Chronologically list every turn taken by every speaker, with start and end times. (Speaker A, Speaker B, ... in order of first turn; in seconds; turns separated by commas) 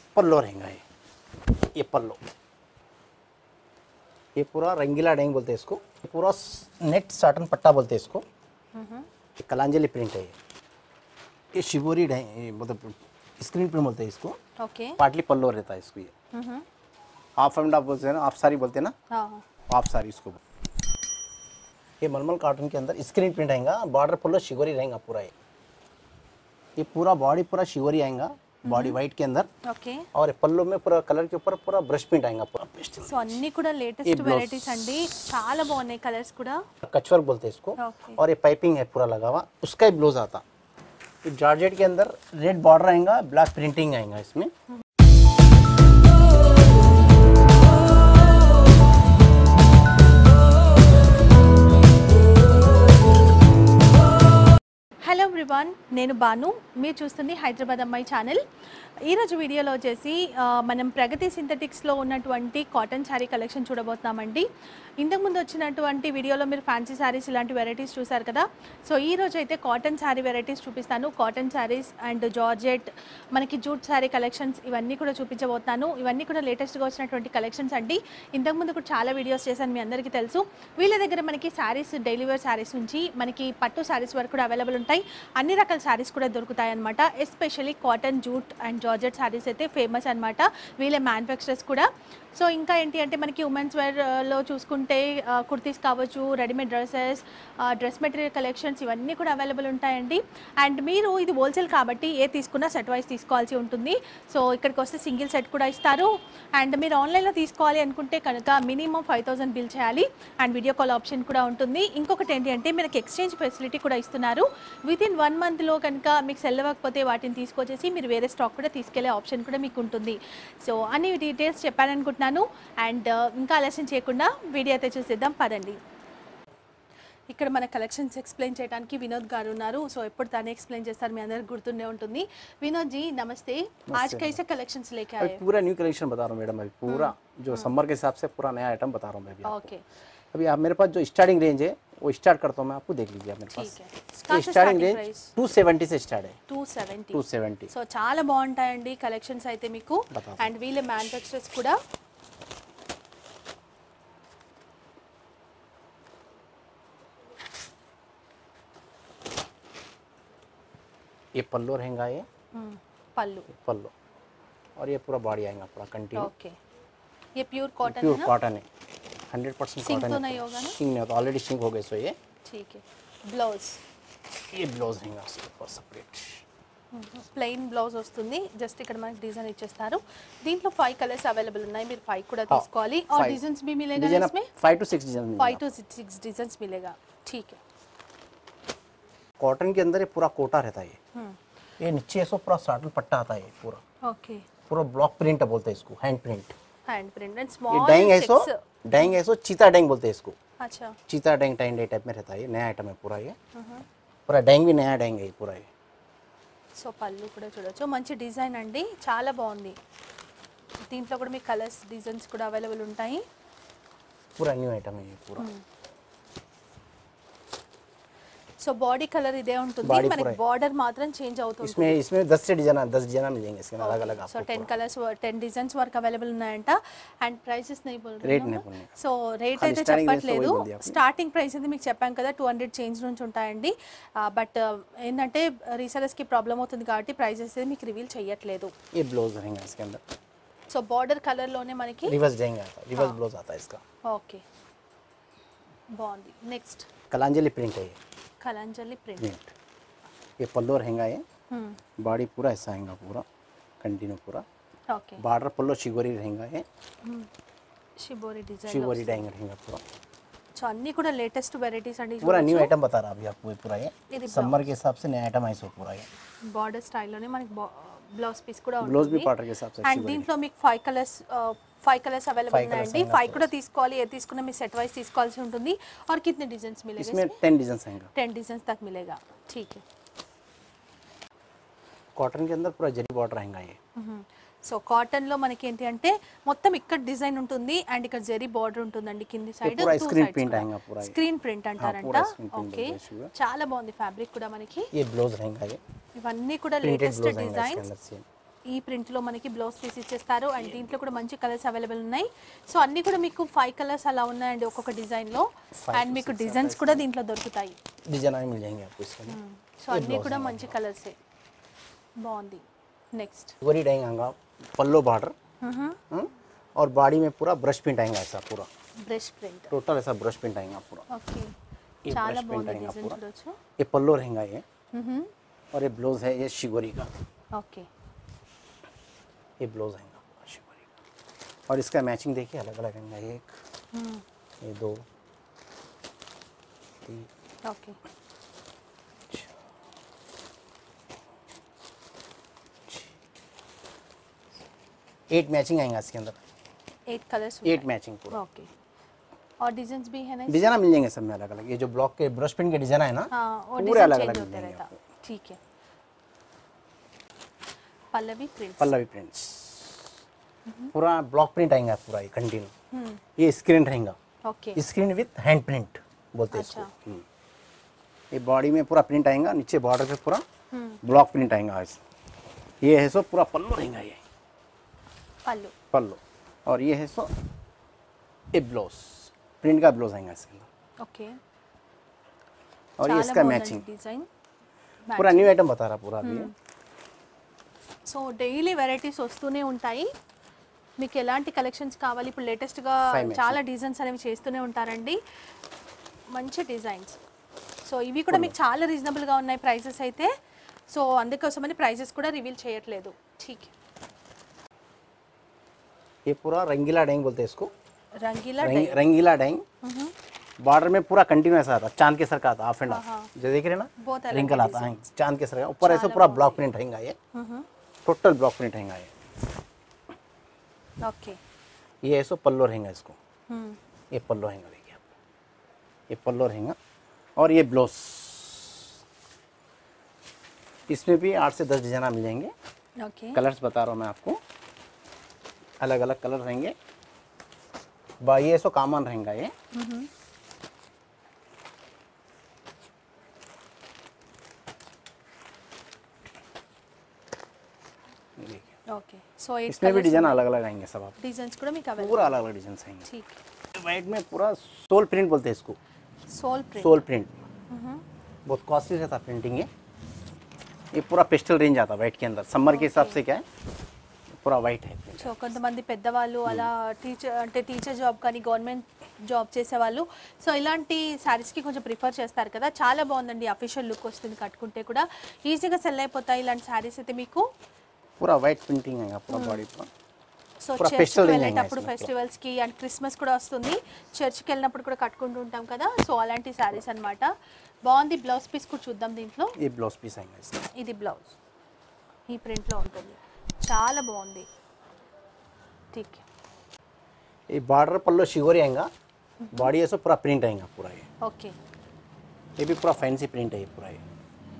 Speaker A: 0.1-0.8, Speaker A: 1.7-2.2, Speaker A: 4.4-8.2, Speaker B: 8.7-9.1, Speaker A: 9.4-10.3, Speaker A: 11.5-14.4, Speaker B: 14.6-15.0, Speaker A: 15.0-16.1, Speaker B: 16.3-16.6, Speaker A: 17.4-18.9, Speaker B: 19.1-19.4, Speaker A: 19.7-20.4, Speaker A: 22.0-25.3, Speaker A: 26.8-29.5, Speaker B: 28.6-29.0, Speaker B: 29.6-30.1, Speaker A: 30.1-33.4, Speaker B: 33.1-36.6, Speaker A: 34.0-34.9, Speaker A: 36.8-40.4, Speaker B: 37.8-38.2, Speaker A: 41.2-44.5, Speaker B: 55.0-58.4, Speaker B: 59.0-64.5, Speaker B: 65.0-125.8, Speaker B: 127.3-135.4, Speaker A: 133.9-134.4, Speaker A: 135.2-139.7, Speaker B: 136.9-137.7, Speaker B: 139.4-139.8, Speaker A: 140.3-143.7, Speaker B: 143.5-145.3, Speaker A: 144.3-146.4, Speaker B: 146.5-151.8, Speaker A: 147.1-147.7, Speaker A: 150.1-150.5, Speaker A: 161.3-162.2, Speaker B: 162.5-163.5, Speaker A: 163.5-163.9, Speaker A: 164.8-166.3, Speaker B: 166.2-166.6, Speaker B: 167.3-168.3, Speaker A: 167.8-168.7, Speaker A: 169.3-172.2, Speaker B: 169.8-170.8, Speaker B: 172.4-173.8, Speaker A: 174.5-176.4, Speaker B: 176.9-184.5, Speaker A: 182.5-183.4, Speaker A: 183.9-185.6, Speaker B: 185.4-187.6, Speaker A: 189.4-191.0, Speaker A: 191.8-193.8, Speaker B: 194.0-194.5, Speaker A: 194.7-196.5, Speaker B: 196.8-199.1, Speaker A: 197.7-200.3, Speaker B: 200.6-200.9, Speaker A: 201.1-203.3, Speaker B: 203.5-203.8, Speaker A: 204.3-205.7, Speaker B: 206.8-209.8, Speaker B: 210.9-213.2, Speaker A: 214.4-215.5, Speaker B: 218.6-222.0, Speaker A: 219.8-220.4, Speaker A: 221.6-224.7, Speaker B: 223.8-238.7, Speaker A: 228.2-228.9, Speaker A: 229.6-231.0, Speaker A: 238.9-240.0, Speaker B: 240.7-242.2, Speaker A: 242.1-243.8, Speaker B: 244.0-244.4, Speaker B: 245.9-246.9, Speaker A: 247.1-248.0, Speaker B: 248.4-249.3, Speaker A: 249.2-249.5, Speaker A: 250.4-251.2, Speaker B: 251.5-251.8, Speaker A: 252.0-253.2, Speaker A: 253.8-254.4, Speaker B: 254.9-255.2, Speaker A: 255.2-256.6, Speaker B: 257.0-257.3, Speaker B: 258.0-259.2, Speaker A: 258.7-259.8, Speaker B: 260.5-262.7, Speaker A: 262.2-266.1, Speaker B: 264.1-264.6, Speaker B: 266.4-269.3, Speaker A: 268.8-270.3, Speaker B: 269.8-277.4, Speaker A: 272.5-273.5, Speaker A: 277.0-278.1, Speaker B: 278.1-279.8, Speaker A: 282.2-283.8, Speaker B: 283.9-294.9, Speaker A: 289.6-291.2, Speaker A: 291.8-293.3, Speaker A: 294.9-295.8, Speaker B: 296.1-297.9, Speaker A: 296.8-298.2, Speaker B: 298.7-307.8, Speaker A: 305.8-307.1, Speaker A: 308.1-309.4, Speaker B: 309.3-311.1, Speaker A: 309.9-310.7, Speaker B: 312.2-313.5, Speaker A: 313.6-315.3, Speaker B: 315.6-316.0, Speaker A: 316.1-318.7, Speaker B: 319.0-319.7, Speaker A: 319.7-321.1, Speaker B: 321.1-321.5, Speaker A: 322.0-323.2, Speaker B: 322.1-323.6, Speaker A: 323.8-324.6, Speaker B: 324.9-325.3, Speaker A: 325.7-327.1, Speaker B: 327.5-327.9, Speaker A: 329.6-330.9, Speaker A: 331.7-333.5, Speaker B: 333.9-334.2, Speaker A: 334.6-335.0, Speaker B: 337.6-338.0, Speaker A: 345.3-346.4, Speaker B: 347.1-348.7, Speaker A: 347.6-348.4, Speaker B: 349.6-350.7, Speaker A: 350.5-355.0, Speaker B: 353.3-355.6, Speaker B: 358.1-358.9, Speaker A: 358.8-360.0, Speaker B: 360.6-360.9, Speaker A: 360.9-362.7, Speaker B: 362.9-363.2, Speaker A: 363.4-364.2, Speaker B: 364.4-364.8, Speaker A: 364.8-367.2, Speaker B: 366.5-366.9, Speaker A: 368.3-370.4, Speaker B: 370.7-371.0, Speaker A: 371.0-372.0, Speaker A: 372.8-374.2, Speaker B: 375.4-375.7, Speaker A: 375.9-377.3, Speaker A: 378.5-380.7, Speaker B: 381.0-381.4, Speaker A: 383.0-383.8, Speaker B: 383.0-384.3, Speaker B: 385.1-385.5, Speaker A: 385.1-386.5, Speaker B: 386.2-386.5, Speaker B: 388.1-390.1, Speaker B: 391.0-395.2, Speaker A: 393.1-393.6, Speaker B: 396.3-397.2, Speaker B: 397.8-400.3, Speaker B: 400.9-403.7, Speaker A: 406.3-407.7, Speaker B: 408.2-409.0, Speaker A: 408.6-409.6, Speaker B: 409.8-410.1, Speaker A: 410.6-417.1, Speaker B: 412.9-413.3, Speaker B: 414.0-415.0, Speaker B: 415.8-416.6, Speaker B: 417.3-417.6, Speaker A: 418.1-419.1, Speaker B: 421.0-421.4, Speaker A: 422.0-423.2, Speaker B: 423.5-423.8, Speaker A: 424.1-425.1, Speaker A: 426.1-426.8, Speaker A: 427.4-428.9, Speaker A: 430.9-432.5, Speaker B: 433.0-433.4, Speaker A: 433.3-434.4, Speaker A: 435.8-436.7, Speaker A: 438.2-439.5, Speaker B: 439.7-440.1, Speaker A: 448.4-448.6, Speaker B: 448.9-450.4, Speaker A: 449.7-451.1, Speaker B: 451.2-452.4, Speaker A: 452.0-453.1, Speaker B: 453.1-453.4, Speaker A: 453.7-455.8, Speaker B: 456.3-457.0, Speaker A: 456.8-457.3, Speaker B: 457.7-458.0, Speaker A: 458.5-459.7, Speaker A: 460.9-463.4, Speaker B: 462.6-463.2, Speaker A: 464.4-465.6, Speaker B: 465.2-477.4, Speaker A: 478.2-479.9, Speaker B: 479.3-479.6, Speaker B: 480.6-487.3, Speaker A: 480.8-482.1, Speaker B: 487.8-489.5, Speaker A: 489.6-490.7, Speaker B: 490.7-491.3, Speaker B: 492.3-494.5, Speaker B: 495.9-496.2, Speaker A: 497.5-498.9, Speaker B: 499.4-499.7, Speaker A: 499.5-501.1, Speaker B: 501.2-501.5, Speaker A: 502.6-504.0